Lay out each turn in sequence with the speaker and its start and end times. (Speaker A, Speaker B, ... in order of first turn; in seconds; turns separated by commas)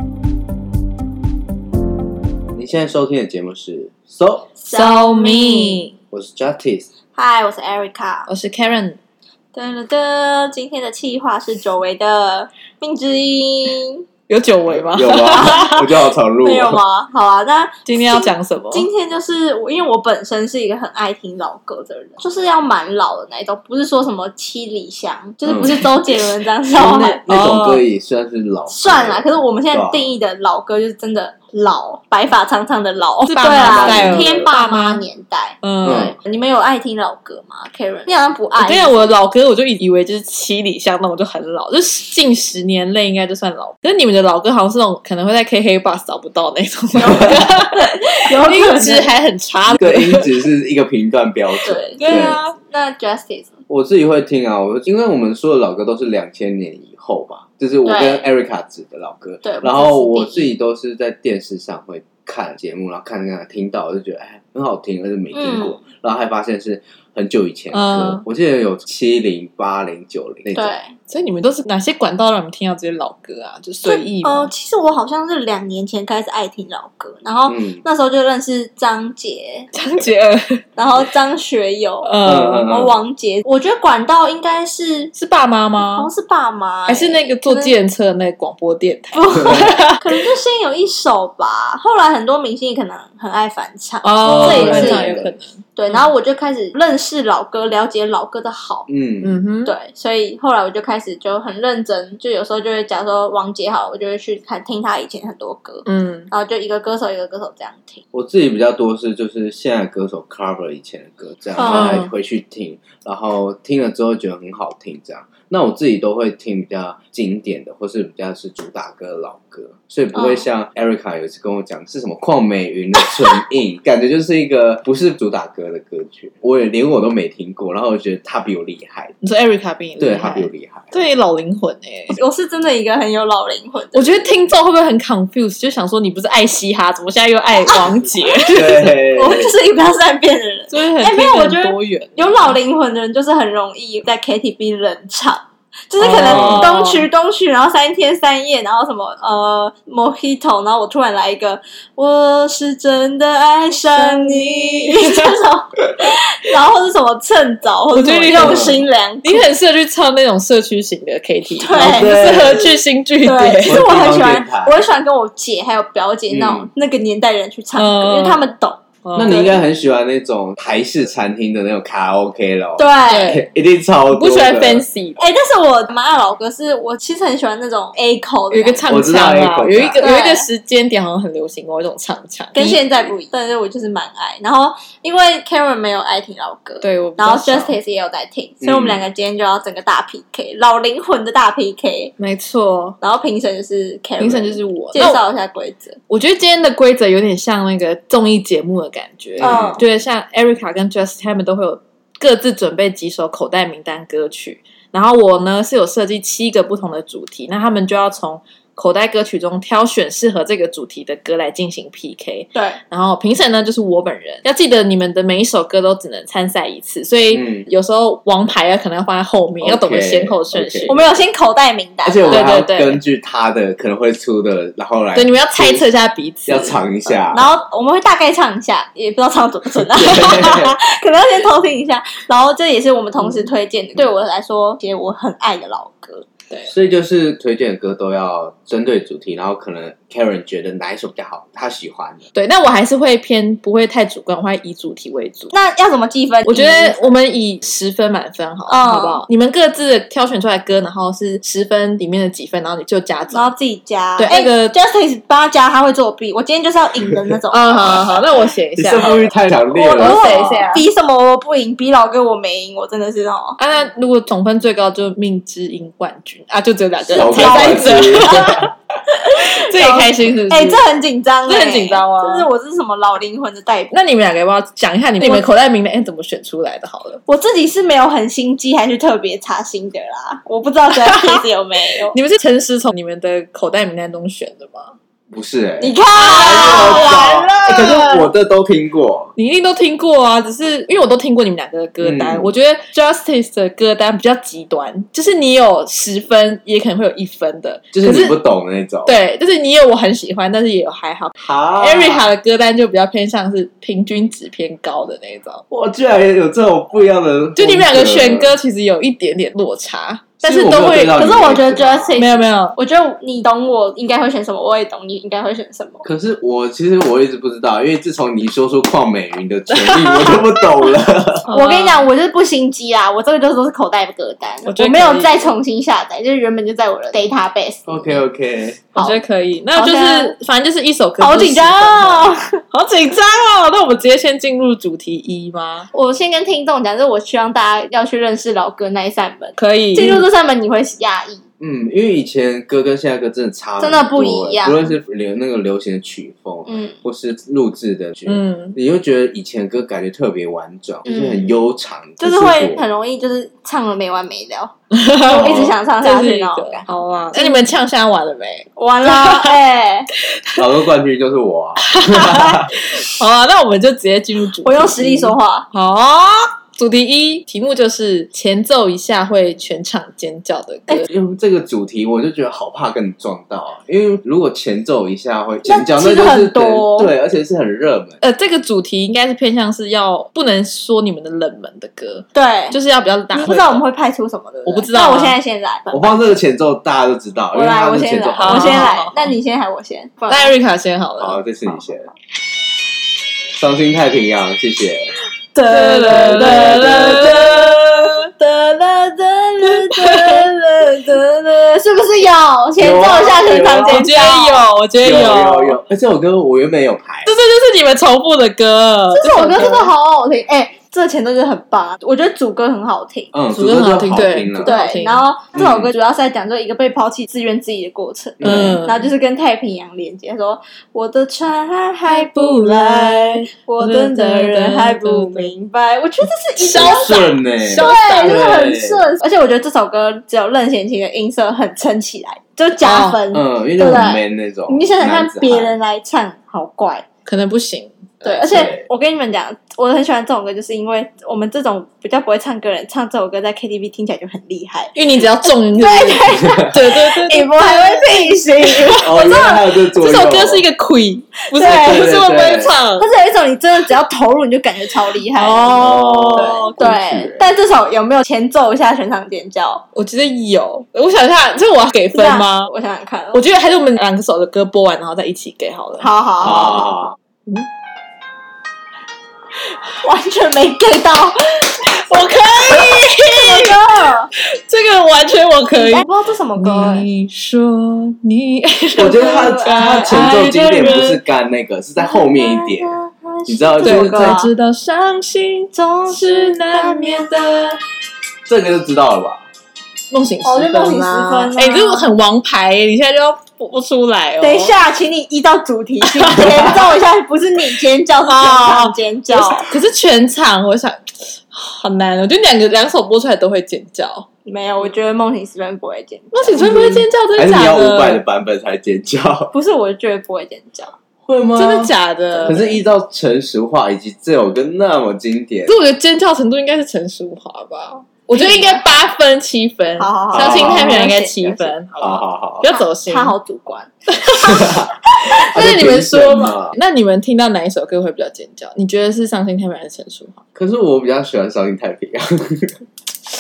Speaker A: 2.5-4.5, Speaker B: 4.6-5.9, Speaker C: 4.7-5.9, Speaker A: 6.1-6.9, Speaker B: 7.2-8.3, Speaker C: 8.3-9.0, Speaker B: 9.5-14.1, Speaker C: 14.3-15.8, Speaker A: 14.7-16.8, Speaker B: 15.4-15.8, Speaker B: 16.4-27.2, Speaker C: 17.9-18.9, Speaker A: 26.7-30.1, Speaker C: 27.3-27.8, Speaker B: 28.7-39.1, Speaker C: 33.3-35.0, Speaker A: 33.5-34.3, Speaker C: 35.6-36.1, Speaker A: 35.8-36.1, Speaker C: 38.6-50.4, Speaker B: 47.0-49.1, Speaker A: 49.7-52.4, Speaker B: 51.6-53.5, Speaker C: 52.0-52.5, Speaker A: 53.7-70.8, Speaker B: 57.9-58.2, Speaker B: 59.4-60.5, Speaker B: 65.3-65.8, Speaker C: 67.7-68.2, Speaker B: 70.5-70.9, Speaker C: 71.1-74.5, Speaker B: 73.8-79.7, Speaker A: 77.5-77.8, Speaker C: 79.7-80.7, Speaker B: 80.8-82.1, Speaker C: 82.0-82.7, Speaker A: 82.2-82.9, Speaker B: 82.6-85.1, Speaker C: 85.2-86.1, Speaker B: 85.9-87.7, Speaker C: 86.9-90.1, Speaker B: 89.1-98.9, Speaker C: 94.0-95.6, Speaker A: 94.2-95.3, Speaker A: 98.9-99.3, Speaker C: 99.2-99.7, Speaker B: 99.7-108.0, Speaker C: 105.9-106.3, Speaker A: 108.1-129.2, Speaker B: 111.6-112.0, Speaker C: 111.7-112.1, Speaker C: 129.2-132.2, Speaker A: 130.0-130.9, Speaker B: 132.1-134.2, Speaker C: 133.9-138.8, Speaker B: 137.7-159.5, Speaker A: 138.5-139.5, Speaker C: 140.7-142.5, Speaker C: 146.0-147.1, Speaker A: 146.3-146.6, Speaker C: 154.0-155.3, Speaker C: 157.9-163.8, Speaker A: 158.3-158.8, Speaker B: 161.6-162.5, Speaker A: 161.7-162.8, Speaker B: 163.2-169.5, Speaker A: 163.6-164.8, Speaker A: 166.3-166.7, Speaker C: 167.8-168.4, Speaker C: 169.1-169.5, Speaker A: 169.2-174.8, Speaker B: 172.8-173.4, Speaker C: 173.1-173.5, Speaker C: 174.1-175.2, Speaker B: 175.2-178.8, Speaker C: 178.5-182.8, Speaker A: 178.9-180.0, Speaker B: 180.0-180.5, Speaker B: 182.6-192.1, Speaker C: 186.8-187.8, Speaker A: 188.6-188.9, Speaker C: 192.2-193.0, Speaker B: 193.0-196.0, Speaker C: 194.2-195.2, Speaker C: 196.1-221.1, Speaker A: 199.4-199.8, Speaker B: 199.4-199.8, Speaker A: 217.3-217.6, Speaker A: 219.6-221.0, Speaker B: 220.9-222.4, Speaker A: 222.1-225.9, Speaker C: 222.3-223.0, Speaker C: 225.2-226.8, Speaker A: 226.5-227.5, Speaker B: 227.3-236.3, Speaker A: 229.9-230.8, Speaker A: 236.7-242.2, Speaker C: 242.3-245.5, Speaker B: 245.5-247.1, Speaker C: 246.5-253.5, Speaker B: 248.7-249.2, Speaker B: 253.3-258.2, Speaker C: 254.2-254.7, Speaker C: 257.5-260.9, Speaker A: 258.8-260.7, Speaker B: 259.7-263.6, Speaker C: 263.6-268.7, Speaker A: 267.1-268.7, Speaker B: 267.1-273.9, Speaker C: 269.3-270.9, Speaker C: 271.5-272.5, Speaker C: 273.9-277.2, Speaker B: 277.3-282.2, Speaker C: 282.1-284.9, Speaker A: 285.3-289.3, Speaker B: 285.8-288.2, Speaker C: 286.1-287.5, Speaker C: 289.4-298.3, Speaker A: 292.0-292.5, Speaker A: 297.9-299.2, Speaker C: 299.1-305.6, Speaker A: 301.4-302.3, Speaker A: 305.7-308.6, Speaker C: 307.6-311.2, Speaker A: 310.4-312.2, Speaker B: 311.1-316.1, Speaker C: 312.2-312.8, Speaker A: 316.0-321.5, Speaker C: 321.4-322.1, Speaker B: 321.5-328.2, Speaker C: 324.7-325.5, Speaker A: 327.9-328.9, Speaker C: 328.9-335.9, Speaker B: 329.8-330.3, Speaker B: 331.2-332.6, Speaker B: 335.9-341.4, Speaker C: 339.6-340.2, Speaker A: 341.6-352.8, Speaker B: 343.8-344.9, Speaker B: 346.7-346.9, Speaker C: 348.3-348.8, Speaker B: 351.1-351.6, Speaker B: 352.2-357.6, Speaker C: 355.0-355.2, Speaker A: 355.3-355.7, Speaker C: 356.0-359.5, Speaker B: 358.8-360.1, Speaker C: 360.4-360.6, Speaker A: 360.6-362.8, Speaker C: 361.8-371.1, Speaker B: 364.6-365.7, Speaker A: 371.1-378.2, Speaker B: 375.7-377.1, Speaker C: 378.2-383.8, Speaker B: 382.3-382.8, Speaker B: 383.3-386.1, Speaker C: 384.7-385.4, Speaker A: 385.9-388.8, Speaker B: 387.5-390.5, Speaker C: 388.4-389.3, Speaker C: 390.3-391.4, Speaker A: 391.2-392.1, Speaker A: 393.5-395.1, Speaker B: 395.5-404.7, Speaker C: 395.6-397.6, Speaker A: 396.3-397.8, Speaker C: 399.9-400.3, Speaker A: 402.8-404.1, Speaker C: 403.8-405.8, Speaker A: 405.0-407.3, Speaker C: 407.3-409.9, Speaker B: 409.1-413.3, Speaker A: 413.3-414.8, Speaker C: 413.5-415.2, Speaker B: 414.6-437.1, Speaker A: 415.6-415.9, Speaker A: 418.4-418.8, Speaker C: 418.4-419.1, Speaker C: 422.1-425.5, Speaker C: 426.6-428.5, Speaker A: 426.8-429.1, Speaker C: 432.8-433.2, Speaker A: 433.3-435.7, Speaker C: 437.3-438.7, Speaker B: 438.2-449.3, Speaker C: 444.9-453.1, Speaker A: 449.0-450.7, Speaker B: 451.5-452.1, Speaker A: 451.6-452.7, Speaker B: 453.0-459.8, Speaker C: 455.4-456.8, Speaker A: 455.8-457.5, Speaker C: 459.9-462.7, Speaker B: 462.1-463.4, Speaker C: 463.3-466.1, Speaker B: 466.0-467.0, Speaker A: 466.7-467.1, Speaker B: 470.0-471.8, Speaker C: 471.8-473.8, Speaker B: 472.7-474.3, Speaker C: 474.3-476.1, Speaker B: 475.7-477.1, Speaker C: 476.6-481.2, Speaker A: 479.0-482.9, Speaker B: 479.1-480.1, Speaker B: 482.0-484.5, Speaker A: 483.5-484.4, Speaker C: 483.8-487.8, Speaker B: 485.7-487.3, Speaker A: 488.5-489.4, Speaker C: 490.1-494.8, Speaker B: 490.4-492.1, Speaker B: 494.4-499.7, Speaker C: 496.2-496.8, Speaker C: 498.3-504.3, Speaker B: 504.5-506.7, Speaker C: 506.3-508.2, Speaker A: 506.6-509.5, Speaker B: 509.5-510.9, Speaker A: 511.2-511.9, Speaker C: 511.6-512.8, Speaker A: 512.4-515.8, Speaker C: 515.7-523.4, Speaker B: 518.3-518.9, Speaker B: 520.0-521.8, Speaker A: 520.4-521.0, Speaker A: 522.0-522.6, Speaker B: 522.6-524.8, Speaker C: 524.2-530.4, Speaker A: 524.5-524.9, Speaker A: 525.5-526.8, Speaker A: 530.5-532.8